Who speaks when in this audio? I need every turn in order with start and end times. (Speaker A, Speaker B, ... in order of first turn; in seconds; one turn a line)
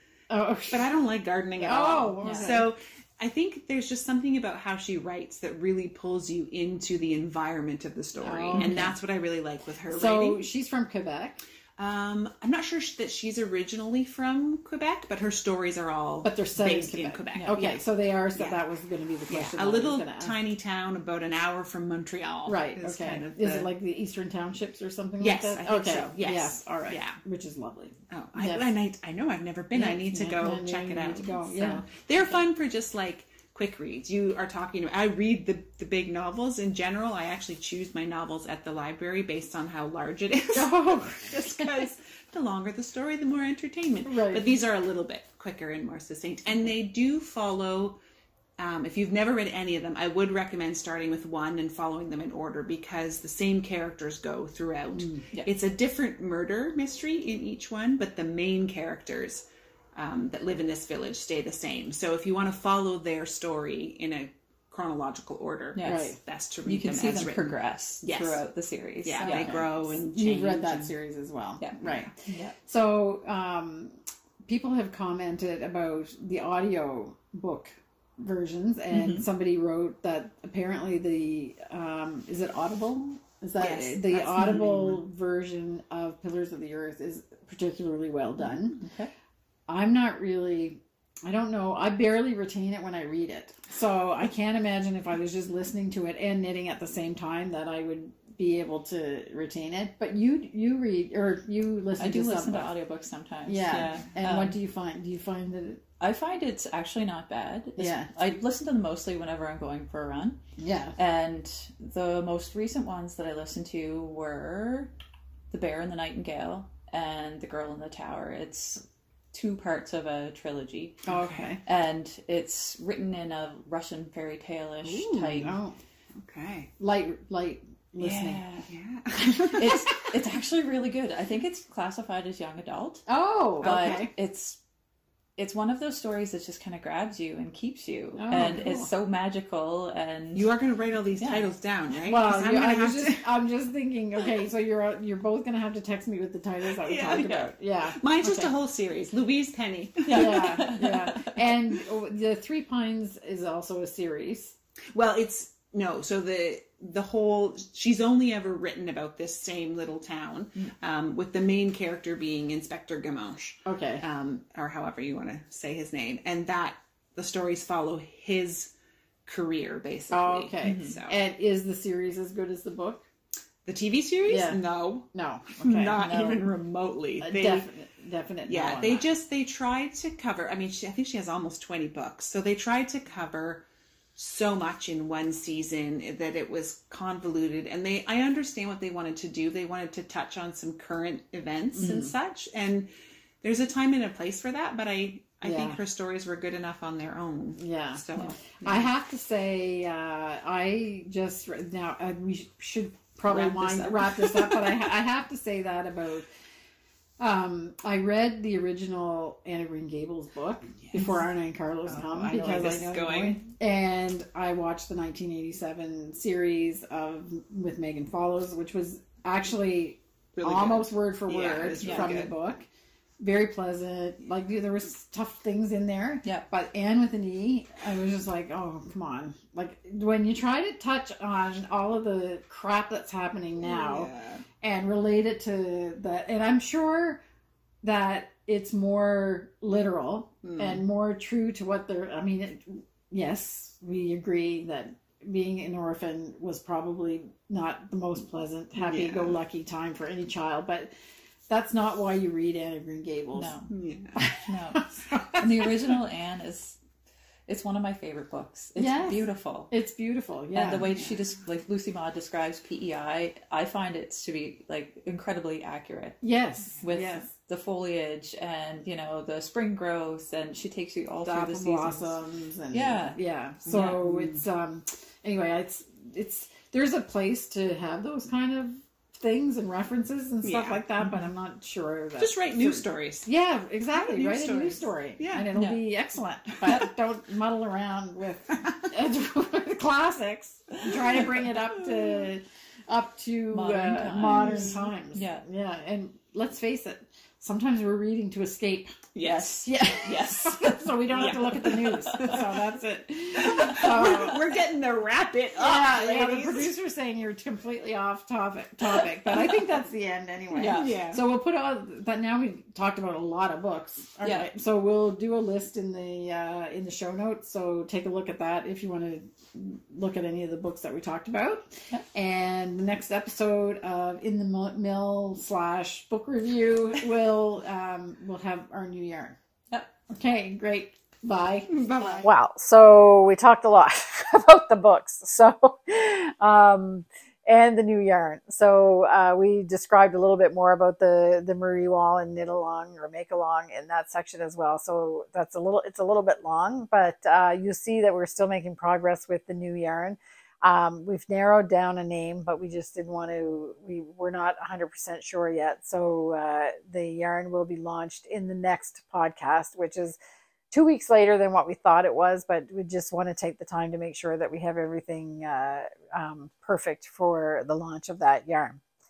Speaker A: 0.3-0.8
Speaker B: 0.7-10.5
Speaker A: 1.6-2.7
Speaker C: 2.2-2.5
Speaker A: 8.2-8.9
Speaker C: 8.6-8.9
Speaker A: 9.9-11.4
Speaker B: 11.8-17.8
Speaker A: 16.2-20.3
Speaker C: 17.4-17.6
Speaker B: 18.4-18.6
Speaker B: 19.3-23.7
Speaker A: 22.5-28.7
Speaker B: 25.2-27.2
Speaker B: 28.1-40.7
Speaker A: 29.8-31.9
Speaker A: 40.5-41.8
Speaker B: 41.3-48.0
Speaker A: 44.0-44.6
Speaker B: 48.6-68.4
Speaker A: 54.9-55.2
Speaker C: 65.8-66.1
Speaker A: 65.8-66.2
Speaker C: 66.7-69.7
Speaker B: 69.0-70.9
Speaker A: 69.2-88.8
Speaker C: 71.6-72.5
Speaker C: 78.9-79.2
Speaker B: 83.6-85.0
Speaker C: 88.4-89.1
Speaker A: 89.7-102.7
Speaker C: 102.0-104.6
Speaker A: 103.5-105.8
Speaker C: 106.0-110.4
Speaker A: 107.8-108.1
Speaker A: 110.6-110.9
Speaker C: 111.0-114.9
Speaker C: 115.5-121.0
Speaker A: 121.0-121.6
Speaker B: 121.1-121.5
Speaker C: 121.7-125.6
Speaker A: 124.8-125.8
Speaker B: 126.2-126.7
Speaker A: 126.8-128.4
Speaker C: 128.0-128.7
Speaker B: 128.7-129.8
Speaker A: 129.3-129.9
Speaker C: 129.5-133.1
Speaker A: 133.1-134.1
Speaker B: 133.6-134.1
Speaker C: 133.6-134.6
Speaker C: 135.4-140.5
Speaker A: 138.2-138.9
Speaker B: 140.3-143.3
Speaker C: 141.2-141.5
Speaker A: 142.1-148.5
Speaker B: 146.8-150.7
Speaker C: 150.1-151.4
Speaker A: 150.1-154.5
Speaker B: 154.9-168.7
Speaker A: 163.7-164.0
Speaker B: 169.3-171.2
Speaker A: 170.1-173.1
Speaker C: 170.6-171.0
Speaker B: 173.7-177.7
Speaker A: 174.3-174.6
Speaker A: 175.1-176.4
Speaker A: 177.2-179.1
Speaker B: 178.5-183.7
Speaker B: 184.2-192.9
Speaker A: 191.8-192.1
Speaker B: 193.4-198.9
Speaker A: 195.4-195.8
Speaker A: 197.6-198.0
Speaker A: 198.6-206.3
Speaker B: 203.3-204.8
Speaker A: 207.2-222.7
Speaker B: 211.9-213.4
Speaker B: 220.3-222.3
Speaker C: 221.8-222.2
Speaker A: 223.2-234.1
Speaker B: 233.6-234.4
Speaker A: 234.6-237.2
Speaker A: 237.8-250.9
Speaker B: 240.4-240.8
Speaker B: 248.8-249.4
Speaker A: 251.5-253.6
Speaker C: 253.3-253.7
Speaker B: 253.7-254.2
Speaker A: 254.2-255.7
Speaker C: 254.4-256.8
Speaker C: 257.5-259.7
Speaker A: 258.8-260.9
Speaker C: 260.5-266.2
Speaker A: 266.2-267.3
Speaker C: 266.8-272.2
Speaker A: 271.2-304.4
Speaker C: 272.7-273.2
Speaker C: 273.7-274.0
Speaker B: 280.4-280.8
Speaker B: 282.2-283.3
Speaker B: 283.9-285.5
Speaker C: 285.5-285.8
Speaker C: 293.5-295.4
Speaker B: 294.2-294.9
Speaker B: 299.1-300.6
Speaker C: 300.1-300.8
Speaker B: 301.1-302.5
Speaker C: 301.9-302.5
Speaker B: 303.4-306.7
Speaker A: 305.6-329.4
Speaker C: 310.5-311.0
Speaker B: 310.6-311.2
Speaker C: 314.2-314.5
Speaker A: 330.1-360.2
Speaker B: 331.7-332.3
Speaker A: 360.7-368.8